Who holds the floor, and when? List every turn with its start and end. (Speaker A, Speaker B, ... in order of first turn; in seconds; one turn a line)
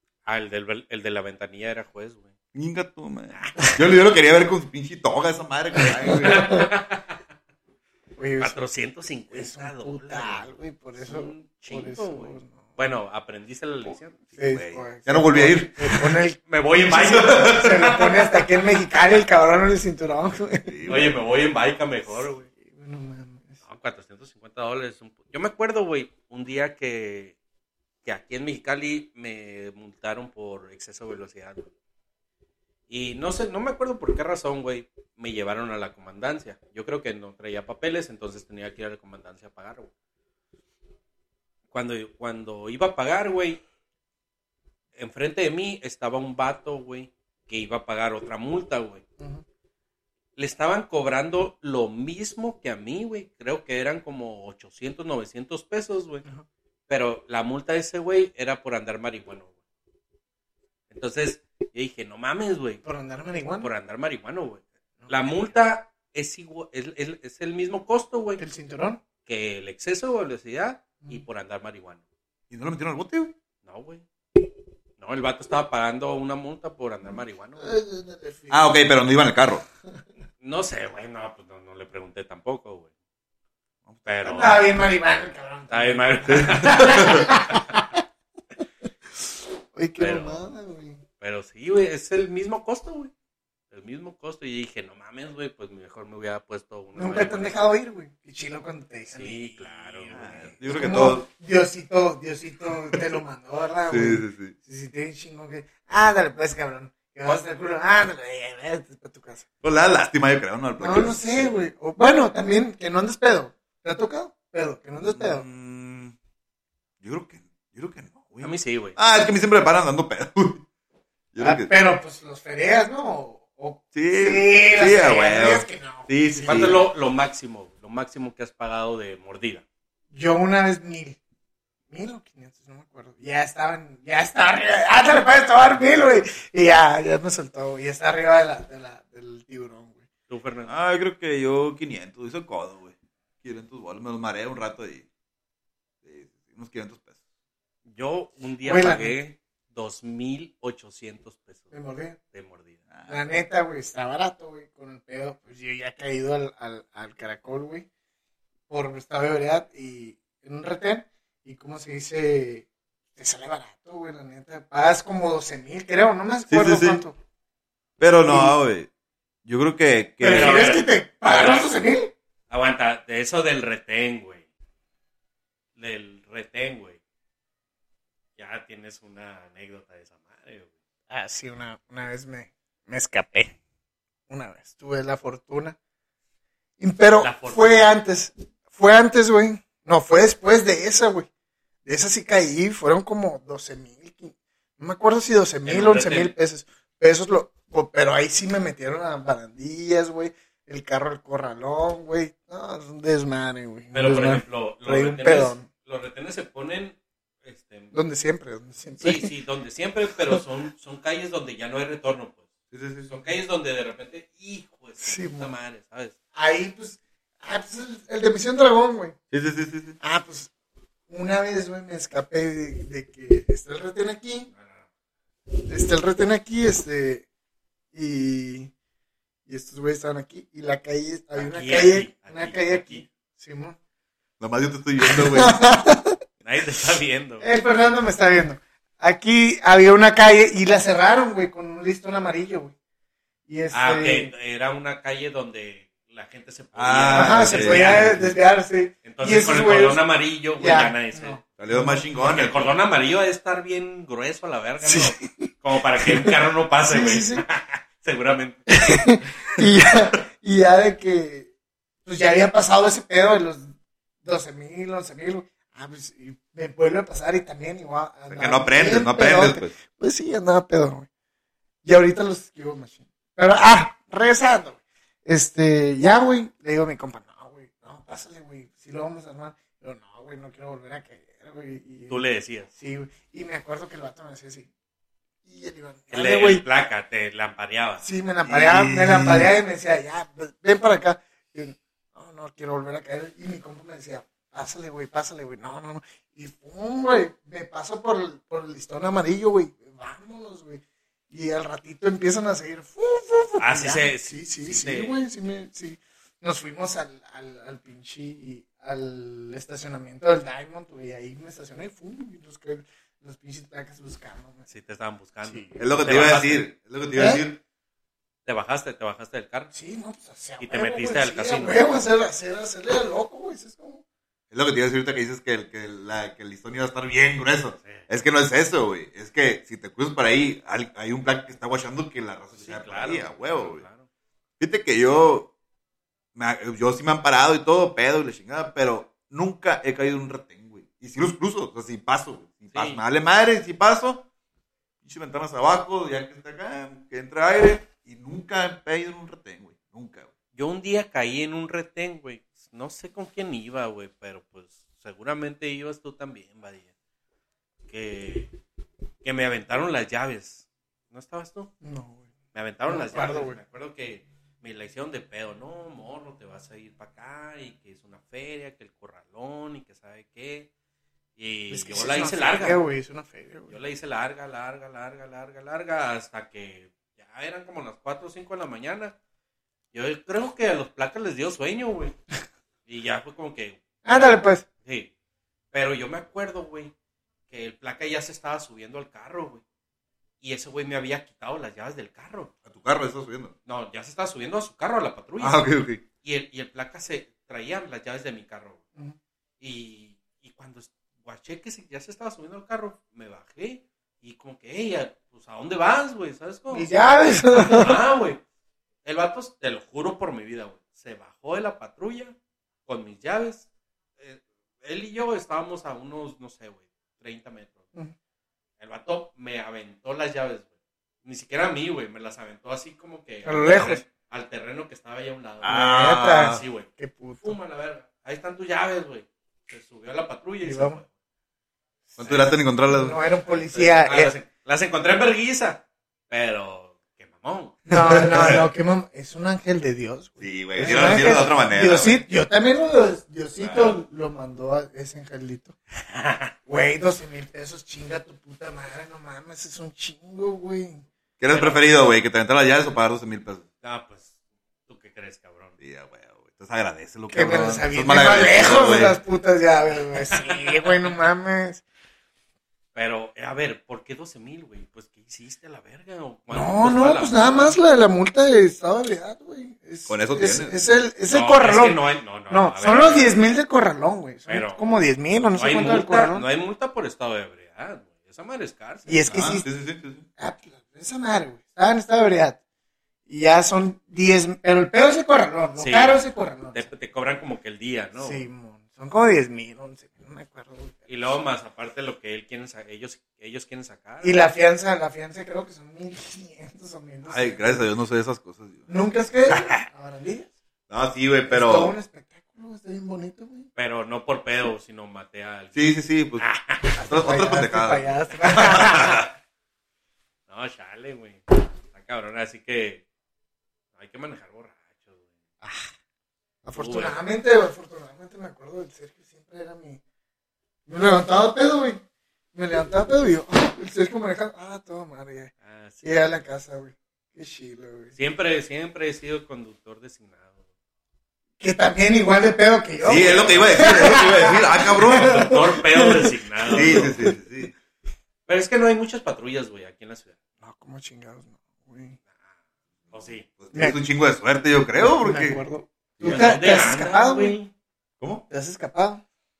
Speaker A: 0.3-2.3
Speaker B: 2.5-6.7
Speaker A: 3.3-3.7
Speaker C: 6.1-6.7
Speaker A: 6.2-7.1
Speaker C: 8.2-8.6
Speaker A: 8.4-14.4
Speaker C: 9.3-12.7
Speaker C: 14.4-20.8
Speaker B: 14.4-16.1
Speaker A: 16.5-18.2
Speaker B: 16.9-18.0
Speaker B: 20.6-21.2
Speaker A: 20.9-22.5
Speaker C: 22.5-23.6
Speaker A: 23.6-27.4
Speaker A: 28.1-31.7
Speaker A: 32.9-39.9
Speaker A: 41.7-43.6
Speaker A: 45.0-49.0
Speaker A: 50.4-56.3
Speaker A: 56.9-59.5
Speaker A: 60.9-62.8
Speaker C: 62.9-63.7
Speaker A: 63.6-68.4
Speaker C: 65.0-65.3
Speaker C: 68.4-69.0
Speaker A: 69.3-72.0
Speaker B: 72.5-73.3
Speaker A: 73.6-74.0
Speaker A: 75.0-77.7
Speaker C: 77.6-78.6
Speaker B: 78.5-79.7
Speaker A: 80.4-82.9
Speaker B: 83.9-84.5
Speaker A: 84.0-84.6
Speaker C: 84.3-88.0
Speaker A: 85.7-87.6
Speaker B: 86.3-87.3
Speaker C: 89.2-91.0
Speaker A: 90.0-90.5
Speaker A: 91.2-93.1
Speaker A: 93.7-97.6
Speaker C: 97.0-109.5
Speaker A: 99.1-100.5
Speaker B: 100.1-101.3
Speaker B: 103.9-104.5
Speaker B: 109.6-111.7
Speaker C: 110.8-115.4
Speaker B: 115.0-116.1
Speaker B: 117.0-120.6
Speaker A: 118.4-119.3
Speaker B: 121.3-121.7
Speaker C: 121.4-126.8
Speaker B: 123.9-126.8
Speaker A: 126.5-129.6
Speaker C: 130.1-131.2
Speaker C: 131.9-140.1
Speaker A: 140.3-140.7
Speaker B: 140.7-145.1
Speaker B: 146.0-147.2
Speaker A: 147.9-151.8
Speaker C: 148.6-149.1
Speaker C: 151.7-152.2
Speaker A: 152.3-152.8
Speaker B: 152.9-153.2
Speaker C: 153.1-157.9
Speaker C: 158.7-167.2
Speaker B: 166.5-167.0
Speaker B: 168.0-168.9
Speaker C: 168.3-168.6
Speaker B: 169.5-170.8
Speaker C: 170.2-172.1
Speaker A: 170.3-171.7
Speaker A: 172.5-174.4
Speaker A: 175.8-177.0
Speaker A: 178.4-180.7
Speaker C: 181.1-183.6
Speaker C: 184.3-185.8
Speaker C: 186.8-191.3
Speaker A: 187.2-187.9
Speaker C: 191.8-205.7
Speaker A: 195.7-196.3
Speaker A: 203.9-207.9
Speaker C: 207.9-209.3
Speaker A: 209.0-212.5
Speaker B: 212.7-213.2
Speaker A: 213.1-216.2
Speaker C: 215.0-215.5
Speaker C: 216.3-219.2
Speaker B: 219.3-220.0
Speaker C: 220.0-220.5
Speaker C: 221.1-224.5
Speaker A: 224.5-224.9
Speaker C: 225.6-227.3
Speaker C: 227.9-228.7
Speaker C: 229.5-233.8
Speaker A: 231.4-233.1
Speaker B: 234.4-235.7
Speaker C: 235.0-236.2
Speaker A: 236.4-237.5
Speaker C: 237.4-242.7
Speaker C: 243.5-244.3
Speaker A: 243.7-248.3
Speaker B: 246.8-248.3
Speaker C: 247.1-250.0
Speaker A: 249.0-251.4
Speaker C: 250.6-252.1
Speaker B: 251.6-252.7
Speaker A: 252.2-258.6
Speaker C: 254.8-256.4
Speaker C: 256.9-257.4
Speaker C: 258.7-261.5
Speaker C: 262.1-263.7
Speaker C: 264.2-271.1
Speaker B: 268.3-269.8
Speaker C: 271.8-282.2
Speaker A: 282.1-282.7
Speaker C: 282.7-284.7
Speaker C: 285.5-286.6
Speaker A: 286.1-288.1
Speaker C: 288.0-314.7
Speaker B: 288.4-289.5
Speaker A: 303.6-305.2
Speaker A: 314.7-316.7
Speaker C: 315.5-315.7
Speaker B: 315.8-317.6
Speaker C: 317.2-317.4
Speaker A: 318.4-319.7
Speaker C: 319.7-324.0
Speaker A: 320.6-321.8
Speaker B: 324.5-333.8
Speaker A: 327.8-328.1
Speaker A: 332.6-334.1
Speaker B: 334.6-335.5
Speaker B: 336.4-344.3
Speaker A: 342.7-343.0
Speaker B: 345.0-350.3
Speaker A: 350.6-356.9
Speaker A: 357.9-358.5
Speaker A: 359.2-361.7
Speaker C: 361.8-362.3
Speaker A: 362.5-370.7
Speaker C: 362.9-363.6
Speaker A: 371.4-372.8
Speaker C: 371.7-373.7
Speaker A: 373.7-379.1
Speaker A: 379.9-382.2
Speaker A: 382.9-385.1
Speaker C: 384.1-384.6
Speaker A: 385.7-386.9
Speaker A: 387.5-389.6
Speaker A: 390.4-392.5
Speaker B: 392.7-393.5
Speaker A: 393.7-395.7
Speaker B: 395.4-396.0
Speaker A: 396.2-398.8
Speaker A: 399.6-406.9
Speaker C: 406.7-408.0
Speaker A: 407.5-408.4
Speaker A: 409.0-412.4
Speaker A: 412.9-417.9
Speaker A: 418.8-420.7
Speaker A: 421.2-426.9
Speaker C: 423.4-424.0
Speaker B: 425.6-426.6
Speaker C: 425.7-427.6
Speaker A: 427.4-431.1
Speaker C: 430.6-431.0
Speaker C: 432.1-434.3
Speaker B: 432.2-433.2
Speaker A: 433.4-437.8
Speaker C: 437.9-445.8
Speaker B: 437.9-438.6
Speaker B: 440.4-442.2
Speaker A: 440.8-441.3
Speaker A: 446.0-446.5
Speaker C: 446.7-451.1
Speaker B: 451.4-453.6
Speaker A: 451.5-451.8
Speaker A: 453.8-454.4
Speaker A: 454.9-455.8
Speaker B: 455.8-459.2
Speaker C: 457.3-461.8
Speaker A: 460.3-461.1
Speaker A: 462.9-467.8
Speaker C: 466.5-476.5
Speaker B: 470.1-470.8
Speaker A: 471.3-473.4
Speaker A: 474.5-474.8
Speaker A: 475.5-479.4
Speaker C: 479.1-479.7
Speaker B: 479.3-480.3
Speaker C: 480.4-482.6
Speaker C: 483.3-486.9
Speaker A: 485.8-486.2
Speaker A: 486.7-488.5
Speaker C: 488.2-491.3
Speaker A: 491.1-494.4
Speaker C: 494.2-497.8
Speaker B: 497.3-498.9
Speaker C: 498.9-500.5
Speaker B: 499.5-499.8
Speaker B: 500.9-501.9
Speaker C: 501.5-503.7
Speaker A: 503.8-505.8
Speaker B: 505.7-509.3
Speaker A: 506.4-507.0
Speaker C: 507.0-509.2
Speaker A: 510.5-513.0
Speaker A: 514.0-515.3
Speaker C: 515.6-515.9
Speaker C: 516.6-520.0
Speaker A: 516.7-517.2
Speaker C: 520.9-522.0
Speaker C: 522.5-525.5
Speaker A: 525.6-526.4
Speaker C: 526.0-528.1
Speaker A: 528.2-530.6
Speaker C: 531.6-537.4
Speaker B: 533.0-535.6
Speaker A: 533.2-533.7
Speaker A: 535.2-537.1
Speaker B: 536.7-537.7
Speaker A: 538.5-540.4
Speaker C: 540.6-542.2
Speaker A: 543.1-543.5
Speaker B: 543.5-545.6
Speaker C: 545.0-547.6
Speaker B: 546.2-547.0
Speaker A: 546.2-547.7
Speaker C: 548.5-549.2